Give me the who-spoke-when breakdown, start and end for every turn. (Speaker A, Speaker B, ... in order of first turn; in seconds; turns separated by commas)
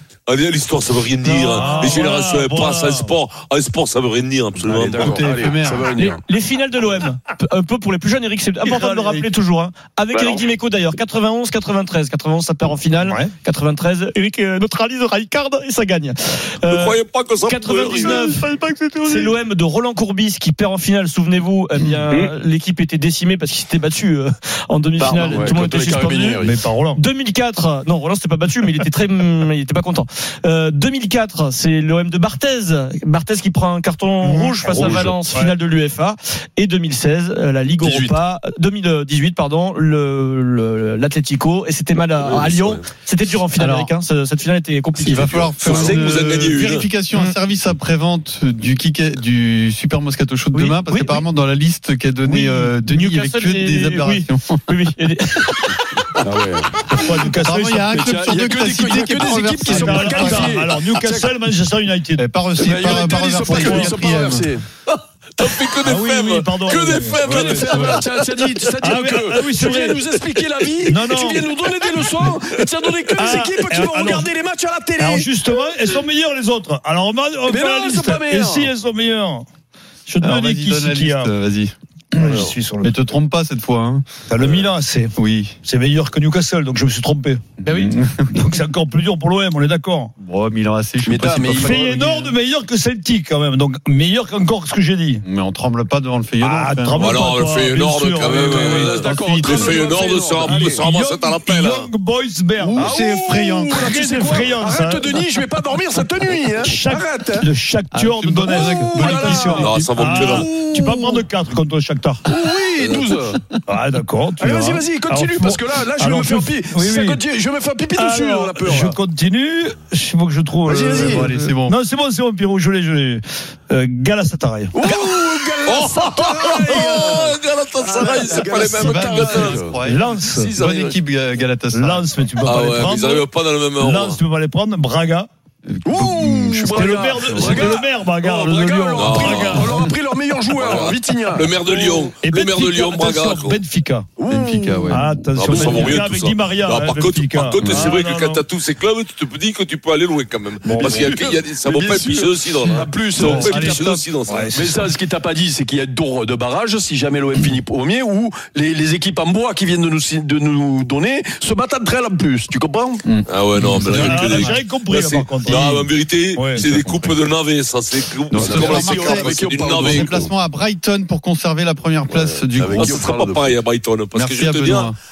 Speaker A: 0.3-5.2, Speaker B: 1.2-3.1, Speaker C: 4.6-6.2, Speaker D: 4.9-5.9, Speaker E: 5.9-18.4, Speaker B: 8.7-9.2, Speaker A: 10.1-10.4, Speaker B: 13.0-13.3, Speaker A: 16.6-18.2, Speaker B: 17.9-19.4, Speaker E: 19.0-26.4, Speaker C: 25.1-26.6, Speaker B: 26.4-27.0, Speaker E: 26.9-46.0, Speaker B: 34.2-35.6, Speaker C: 37.8-38.1, Speaker A: 42.2-42.8, Speaker D: 43.5-43.9, Speaker D: 45.0-54.6, Speaker A: 45.6-46.9, Speaker E: 50.5-51.2, Speaker E: 52.3-55.8, Speaker C: 56.2-57.0, Speaker B: 56.9-58.0, Speaker D: 57.4-60.6, Speaker C: 58.0-61.3, Speaker B: 59.6-62.2, Speaker D: 62.1-64.5, Speaker C: 62.6-64.6, Speaker B: 63.5-64.0, Speaker A: 64.9-69.5, Speaker B: 65.8-67.9, Speaker C: 67.2-75.3, Speaker B: 68.8-70.0, Speaker A: 70.2-70.7, Speaker B: 70.8-71.5, Speaker A: 71.2-73.8, Speaker B: 73.2-74.3, Speaker B: 75.0-79.4, Speaker C: 77.5-78.7, Speaker B: 80.1-81.3, Speaker D: 80.2-84.0, Speaker B: 82.2-82.9, Speaker A: 82.2-82.5, Speaker B: 84.3-87.4, Speaker D: 85.2-85.5, Speaker E: 87.6-87.9, Speaker D: 87.7-88.5, Speaker B: 88.3-90.1, Speaker D: 90.2-92.3, Speaker C: 91.0-91.8, Speaker B: 91.5-95.2, Speaker D: 95.2-97.3, Speaker B: 96.4-99.1, Speaker A: 97.0-101.9, Speaker C: 98.4-100.8, Speaker D: 98.5-99.8, Speaker B: 100.4-102.9, Speaker C: 102.6-107.5, Speaker D: 102.8-104.0, Speaker B: 103.7-105.2, Speaker B: 106.5-112.2, Speaker D: 107.9-111.2, Speaker C: 108.5-109.7, Speaker A: 109.6-110.5, Speaker C: 110.2-111.0, Speaker C: 112.2-113.4, Speaker A: 112.8-113.1, Speaker B: 113.7-117.2, Speaker C: 114.4-119.0, Speaker B: 118.0-124.8, Speaker C: 120.6-121.3, Speaker D: 120.9-121.8, Speaker C: 124.7-127.3, Speaker A: 124.8-131.0, Speaker D: 126.5-127.3, Speaker D: 127.8-132.8, Speaker C: 128.0-129.8, Speaker B: 129.8-130.5, Speaker B: 131.7-133.3, Speaker A: 132.4-134.2, Speaker B: 133.8-135.3, Speaker D: 135.7-137.7, Speaker C: 135.8-141.6, Speaker B: 136.6-139.9, Speaker A: 138.9-139.8, Speaker A: 140.5-143.6, Speaker B: 141.7-144.1, Speaker C: 144.2-145.8, Speaker D: 144.3-145.2, Speaker B: 144.8-148.4, Speaker A: 145.3-154.5, Speaker C: 147.6-147.9, Speaker B: 150.6-152.0, Speaker C: 150.8-163.0, Speaker B: 152.6-154.9, Speaker D: 163.0-164.5, Speaker A: 163.2-170.2, Speaker B: 163.7-166.7, Speaker D: 165.4-165.8, Speaker D: 166.6-167.2, Speaker D: 168.3-173.1, Speaker C: 168.3-170.3, Speaker A: 172.1-174.9, Speaker C: 172.5-173.6, Speaker D: 174.1-174.9